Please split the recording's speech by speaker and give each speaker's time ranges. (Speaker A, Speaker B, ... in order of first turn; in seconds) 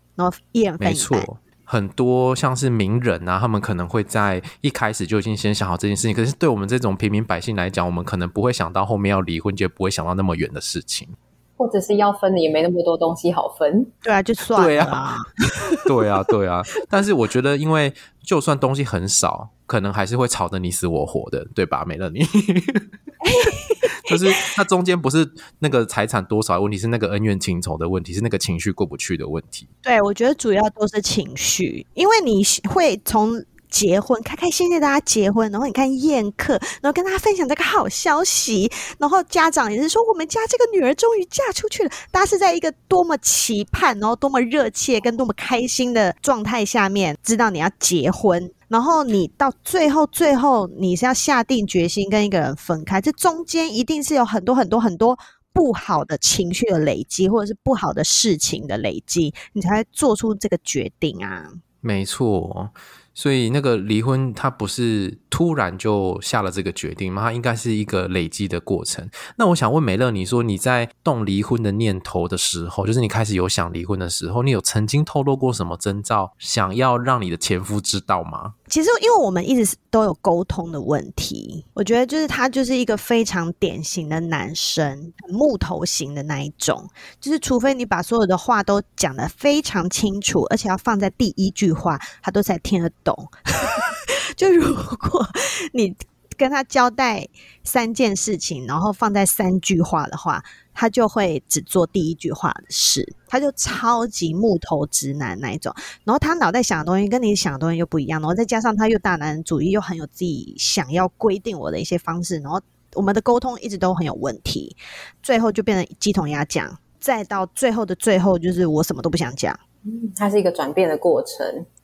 Speaker A: 0.2-1.3, 14.0-15.8, 23.2-24.1, 29.8-61.6, 78.7-119.6
Speaker B: 0.8-11.2, 14.5-15.2, 15.8-22.9, 23.8-29.7, 61.8-78.5
Speaker C: 11.6-13.9, 119.8-121.7